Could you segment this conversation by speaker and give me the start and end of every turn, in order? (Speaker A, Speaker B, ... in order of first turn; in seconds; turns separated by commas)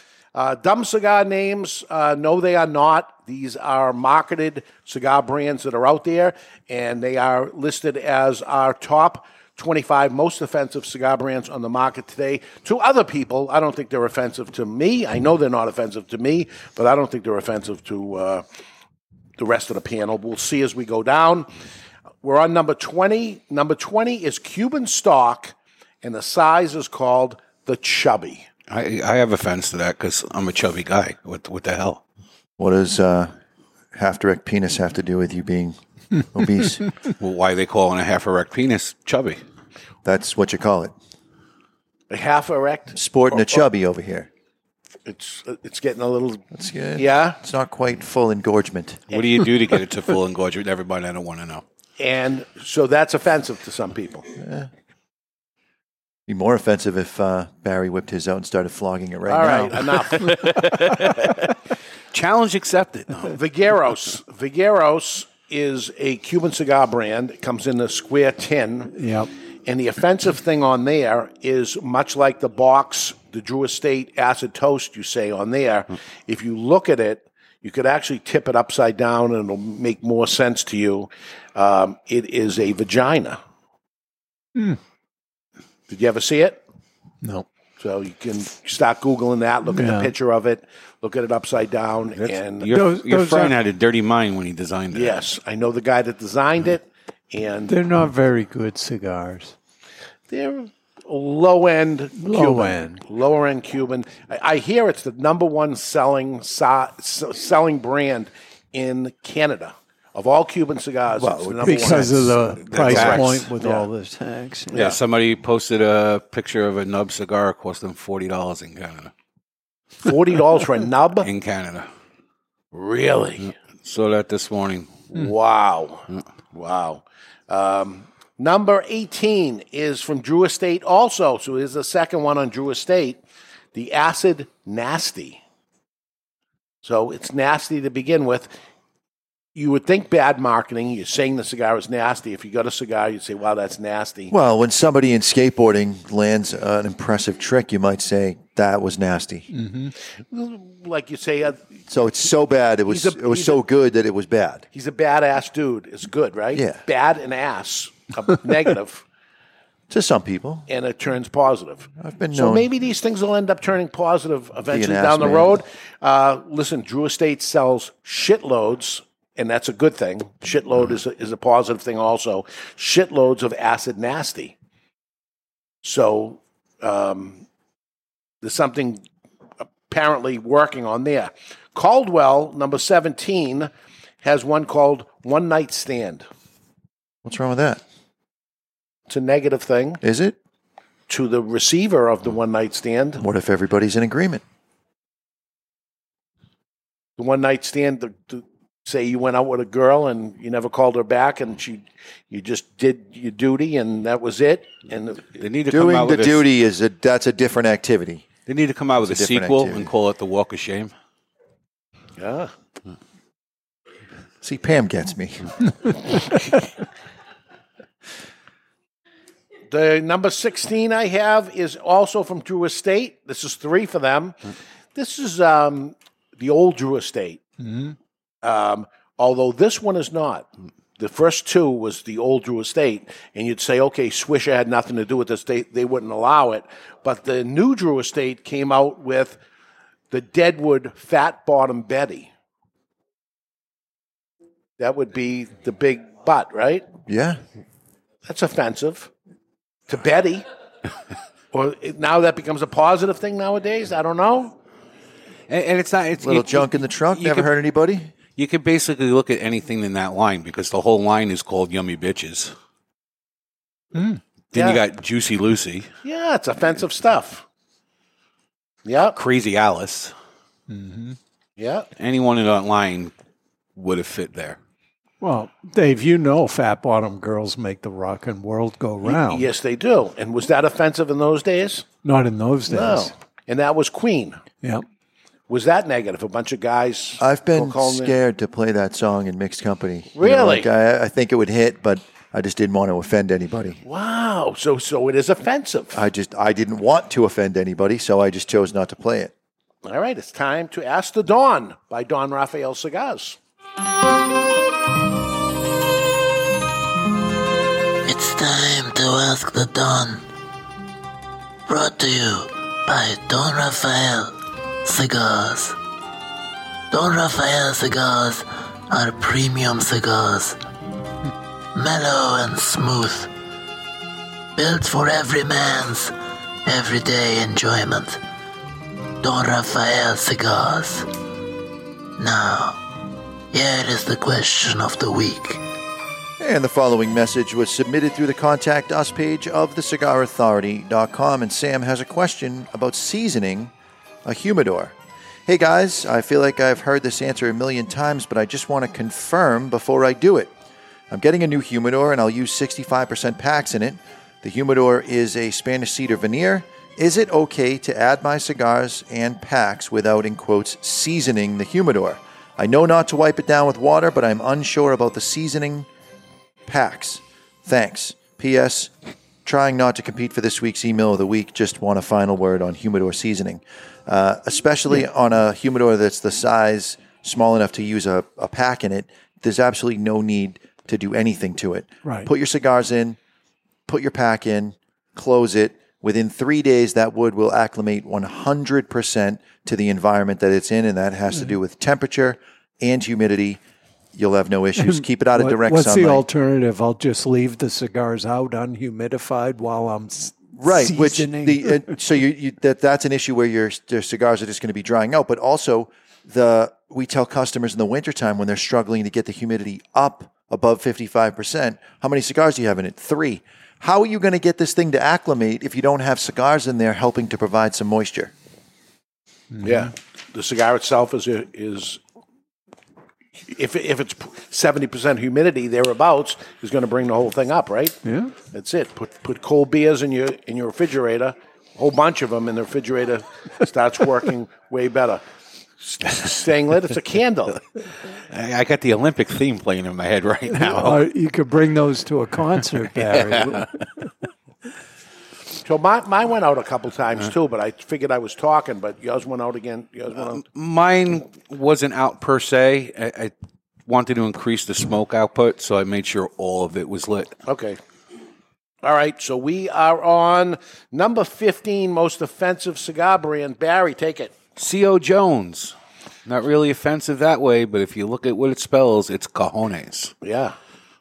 Speaker A: 0.3-18.4, Speaker A: 19.4-21.5, Speaker A: 22.2-28.5, Speaker B: 28.7-32.0, Speaker C: 32.6-33.3, Speaker C: 33.9-35.8, Speaker C: 36.3-36.8, Speaker B: 37.2-39.4, Speaker C: 40.0-40.9, Speaker A: 42.1-43.6, Speaker C: 42.9-44.3, Speaker A: 45.0-46.4, Speaker C: 46.5-49.0, Speaker A: 47.0-47.4, Speaker B: 49.1-51.6, Speaker A: 52.0-54.3, Speaker C: 54.4-54.7, Speaker C: 56.3-59.8, Speaker A: 59.3-60.7, Speaker B: 60.2-61.1, Speaker B: 62.1-63.3, Speaker A: 63.3-68.9, Speaker D: 68.9-69.3, Speaker A: 69.7-83.4, Speaker A: 85.9-86.6, Speaker A: 87.8-92.7, Speaker D: 89.7-90.1, Speaker B: 92.2-95.2, Speaker D: 92.7-93.5, Speaker A: 94.9-97.7, Speaker D: 97.7-99.5, Speaker A: 100.3-113.8, Speaker D: 102.2-103.0, Speaker C: 111.2-112.0, Speaker D: 111.6-114.9, Speaker B: 112.6-113.5, Speaker B: 114.7-119.1, Speaker A: 120.0-121.3, Speaker B: 121.2-121.9, Speaker A: 122.7-123.5, Speaker B: 123.8-125.1, Speaker A: 125.1-133.2, Speaker A: 133.7-135.4, Speaker A: 136.8-138.5, Speaker A: 139.5-144.3, Speaker C: 144.3-149.5, Speaker D: 149.5-149.9, Speaker A: 150.3-151.7, Speaker C: 151.9-154.7, Speaker A: 152.9-153.6, Speaker A: 154.7-159.0, Speaker C: 156.5-156.8, Speaker C: 159.9-160.7, Speaker A: 160.7-174.5, Speaker C: 162.0-162.7, Speaker C: 164.7-165.6, Speaker A: 175.8-177.4, Speaker A: 178.4-179.0, Speaker A: 179.9-183.7, Speaker A: 184.2-186.2, Speaker C: 187.2-187.8, Speaker A: 189.1-190.0, Speaker C: 190.0-190.3, Speaker A: 191.1-193.2, Speaker C: 193.2-194.4, Speaker A: 197.2-205.4, Speaker B: 205.4-206.4, Speaker C: 205.7-208.3, Speaker B: 208.4-210.9, Speaker C: 209.0-209.9, Speaker A: 212.2-212.5, Speaker C: 214.4-215.5, Speaker A: 219.7-224.3, Speaker A: 224.9-227.4, Speaker D: 227.6-227.9, Speaker A: 228.4-239.4, Speaker A: 240.1-242.3, Speaker A: 244.8-246.8, Speaker C: 247.1-247.4, Speaker A: 248.2-249.1, Speaker A: 249.9-250.4, Speaker A: 251.5-254.5, Speaker B: 255.5-257.5, Speaker C: 256.2-258.1, Speaker B: 258.4-262.5, Speaker D: 263.9-264.2, Speaker A: 264.5-264.8, Speaker B: 264.5-265.9, Speaker A: 266.0-267.4, Speaker A: 268.9-269.2, Speaker B: 269.1-270.1, Speaker D: 270.7-271.2, Speaker A: 271.6-271.9, Speaker B: 272.0-273.1, Speaker B: 273.8-274.6, Speaker D: 275.2-279.4, Speaker A: 279.0-281.9, Speaker D: 282.0-283.1, Speaker A: 282.7-284.4, Speaker A: 285.5-288.1, Speaker C: 287.2-293.8, Speaker A: 290.1-290.7, Speaker A: 293.8-296.0, Speaker C: 295.9-299.3, Speaker A: 299.8-303.4, Speaker E: 308.0-310.2, Speaker E: 311.7-315.8, Speaker E: 316.9-320.6, Speaker E: 321.7-323.3, Speaker E: 324.6-328.2, Speaker E: 329.2-331.1, Speaker E: 332.2-332.8, Speaker E: 333.5-335.6, Speaker C: 336.4-343.7, Speaker C: 344.2-344.9, Speaker C: 345.4-350.5, Speaker C: 351.1-365.9, Speaker C: 366.7-368.9, Speaker C: 369.4-383.2, Speaker D: 382.0-382.3, Speaker C: 383.9-393.6, Speaker C: 394.1-396.2, Speaker D: 394.8-401.9, Speaker C: 400.6-418.3, Speaker D: 419.5-419.9, Speaker A: 419.6-422.0, Speaker A: 423.5-428.0, Speaker D: 428.0-428.3, Speaker A: 428.5-435.2, Speaker A: 435.8-437.6, Speaker B: 438.3-441.0, Speaker D: 440.5-443.7, Speaker A: 445.6-450.4, Speaker B: 450.2-453.3, Speaker B: 453.9-457.3, Speaker A: 457.5-457.8, Speaker A: 458.8-464.3, Speaker B: 464.6-465.7, Speaker B: 466.2-470.1, Speaker A: 470.2-470.6